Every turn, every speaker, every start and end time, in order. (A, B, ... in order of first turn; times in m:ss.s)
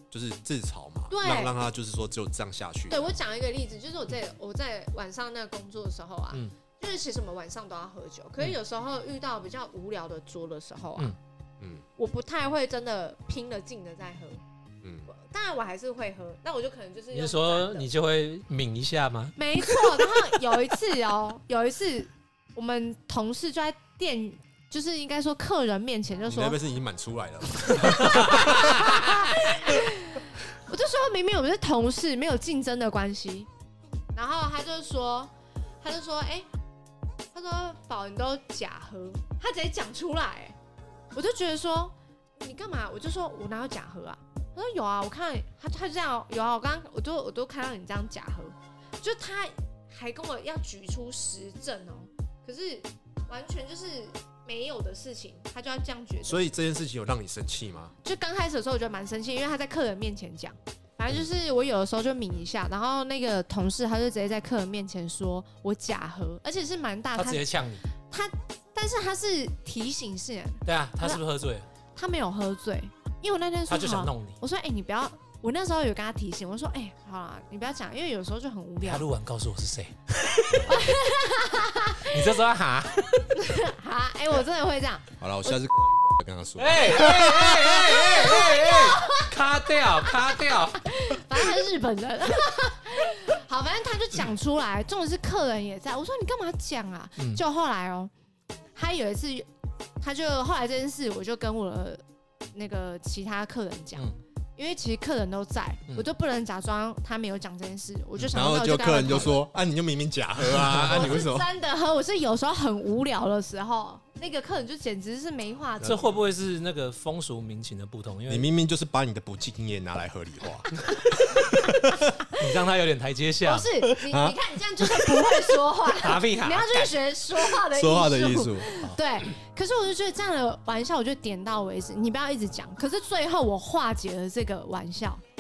0:00.1-0:03.2 A
0:01.1-0:01.6 B
0:02.9-0:11.2 B
0:11.6-0:11.8 A
0:12.0-0:14.4 B
0:14.8-0:15.1 A
0:15.1-0:17.9 B
0:17.1-0:20.2 C
0:19.4-0:26.6 B
0:26.3-0:29.3 A
0:27.6-0:33.5 B
0:27.8-0:28.9 C
0:34.1-0:36.5 B
0:37.3-0:40.6 B
0:41.2-0:56.5 B
0:56.2-0:58.0 A
0:58.0-1:07.5 B
1:07.2-1:07.8 C
1:08.0-1:11.2 B
1:10.7-1:11.7 C
1:12.0-1:19.1 B
1:13.7-1:14.4 C
1:18.8-1:20.9 C
1:20.5-1:20.9 A
1:20.6-1:22.4 B
1:22.0-1:23.3 C
1:23.2-1:25.1 B
1:25.2-1:27.5 A
1:26.6-1:30.9 C
1:27.0-1:29.3 B
1:30.8-1:38.1 B
1:38.8-1:39.5 B
1:40.0-1:42.0 B
1:42.5-1:49.4 B
1:48.3-1:51.5 A
1:50.5-1:51.2 C
1:50.8-1:56.1 B
1:55.8-1:58.5 C
1:58.3-2:02.2 A
2:02.3-2:03.7 C
2:03.4-2:15.2 B
2:03.9-2:05.3 A
2:05.9-2:06.9 C
2:07.7-2:08.9 A